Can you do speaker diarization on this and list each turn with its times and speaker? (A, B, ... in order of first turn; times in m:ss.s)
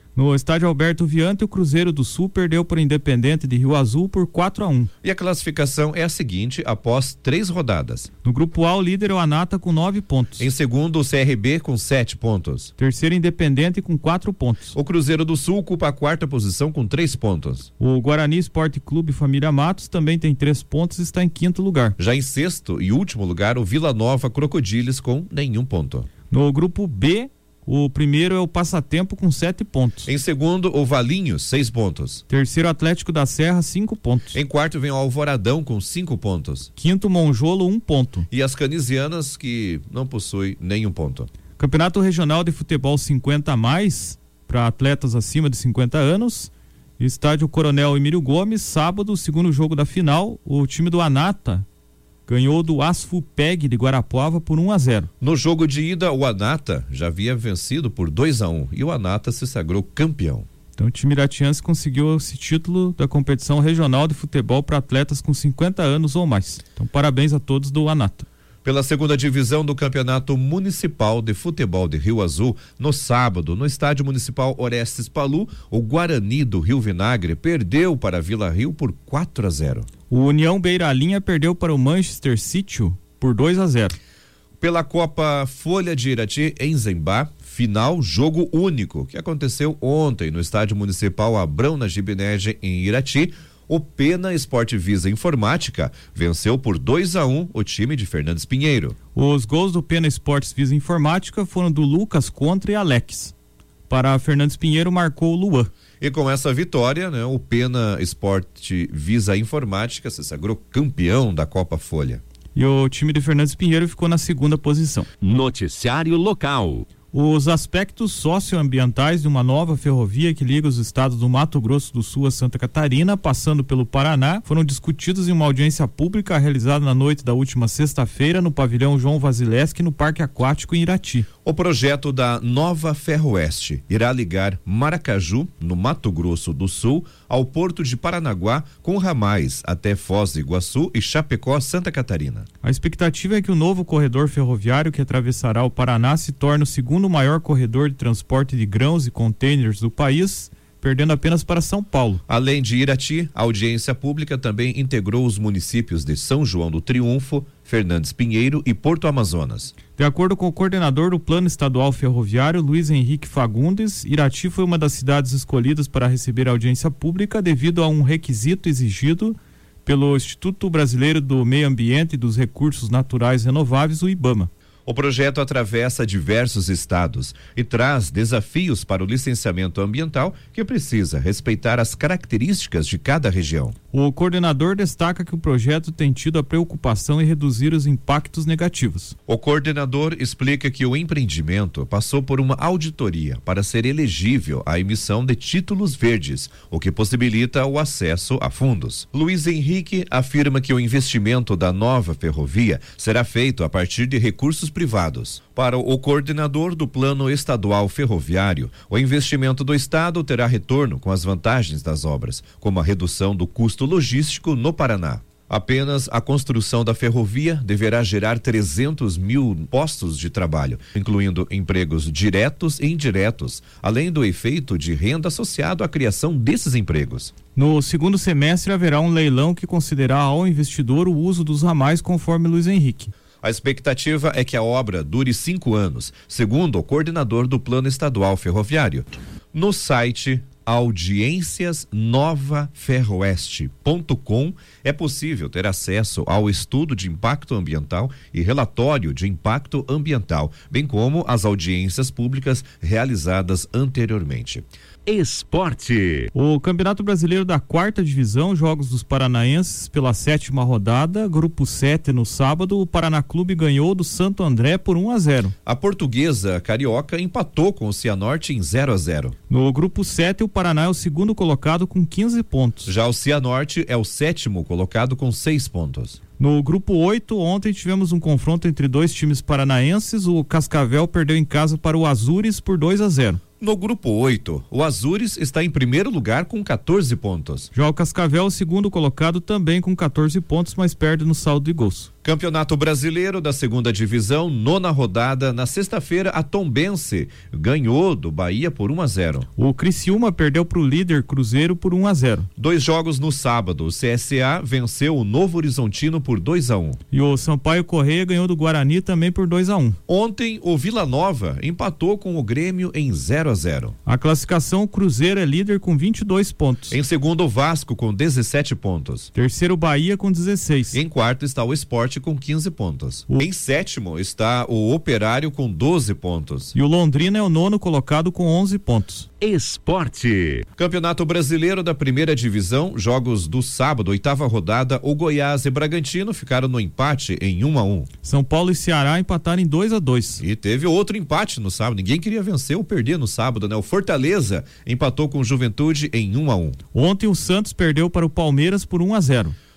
0:00.2-0:04.9 A
0:05.0-0:08.1 B
0:08.2-0:10.5 A
0:10.4-0:12.7 B
0:12.8-0:14.8 A
0:14.8-0:17.7 B
0:17.8-0:22.0 A
0:22.0-0:26.1 B
0:26.3-0:30.1 A
0:30.1-0:32.2 B
0:32.3-0:34.4 A
0:34.3-0:36.7 B
0:36.8-0:38.3 A
0:38.3-0:41.3 B
0:41.6-0:51.6 A
0:52.3-0:55.1 A
0:55.2-1:00.5 B
1:00.8-1:08.3 A
1:08.6-1:19.9 B
1:20.1-1:24.0 A
1:24.6-1:39.0 B
1:39.2-1:43.3 A
1:43.9-1:45.7 A
1:46.0-1:52.2 B
1:52.6-1:55.1 A
1:55.2-1:56.9 C
1:57.1-2:11.3 A
2:11.4-2:22.5 B
2:22.6-2:32.2 A
2:32.3-2:39.7 B
2:40.0-2:54.5 A
2:54.9-3:03.8 B
3:03.9-3:09.2 A
3:09.3-3:47.3 B
3:47.6-3:53.1 A
3:53.4-4:14.6 B
4:15.1-4:16.3 C
4:16.3-4:25.5 A
4:25.7-4:29.4 B
4:29.5-4:32.9 A
4:32.9-4:36.2 B
4:36.4-4:43.4 A
4:43.6-4:47.7 B
4:47.7-4:52.1 A
4:52.2-4:59.5 B
4:59.6-5:02.5 A
5:02.6-5:07.0 B
5:07.1-5:10.0 A
5:10.1-5:14.0 B
5:14.1-5:17.0 A
5:16.9-5:19.3 B
5:19.3-5:21.0 A
5:20.9-5:26.8 B
5:26.8-5:29.3 A
5:29.4-5:30.6 C
5:30.8-5:38.1 B
5:38.2-5:40.4 A
5:40.4-5:46.8 B
5:46.9-5:49.6 A